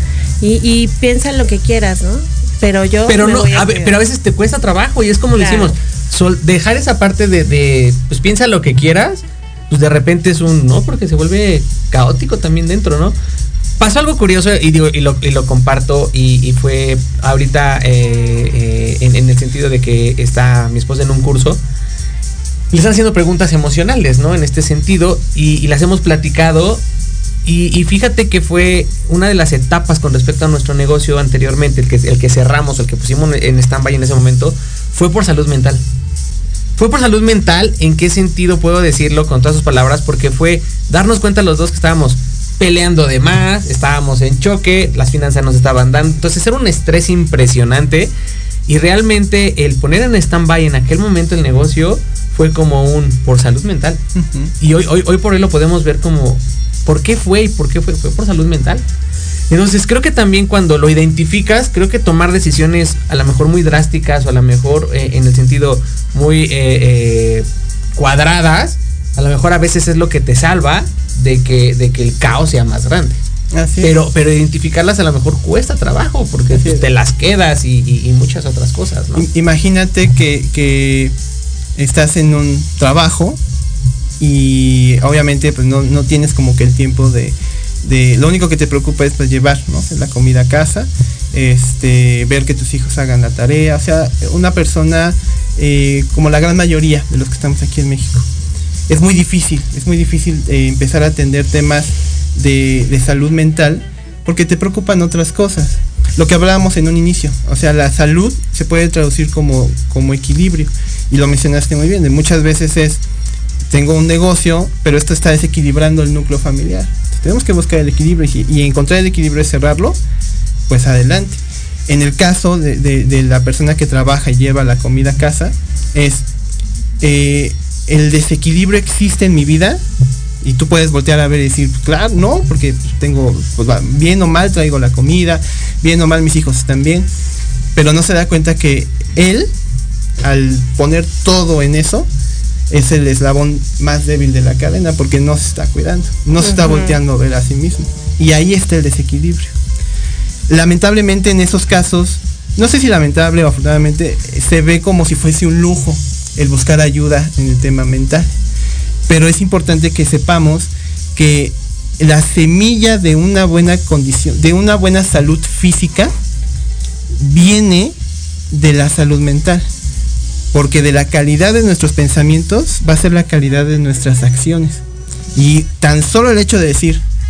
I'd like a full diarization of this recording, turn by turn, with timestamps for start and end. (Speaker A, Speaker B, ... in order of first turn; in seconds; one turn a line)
Speaker A: 0.4-4.0
Speaker B: 3.1-13.1
Speaker A: 5.3-5.7
Speaker B: 13.8-21.6
Speaker B: 22.7-26.8
Speaker B: 27.4-35.8
Speaker B: 36.8-48.1
Speaker B: 48.7-54.0
Speaker C: 54.1-54.5
Speaker B: 54.6-58.8
Speaker B: 59.5-67.5
Speaker B: 68.0-73.2
Speaker C: 73.5-73.9
Speaker B: 73.8-79.3
Speaker C: 76.5-76.8
Speaker C: 79.1-81.1
Speaker C: 81.8-83.4
Speaker C: 84.2-98.2
Speaker C: 98.9-113.0
Speaker C: 113.7-120.0
Speaker C: 120.7-126.2
Speaker C: 127.0-129.8
Speaker C: 130.4-137.1
Speaker C: 137.7-139.5
Speaker C: 140.2-142.1
Speaker C: 142.7-149.5
Speaker A: 146.4-146.9
Speaker C: 150.5-158.3
Speaker C: 159.1-166.1
Speaker C: 167.2-167.9
Speaker C: 168.5-169.6
Speaker C: 170.5-174.8
Speaker C: 175.3-177.0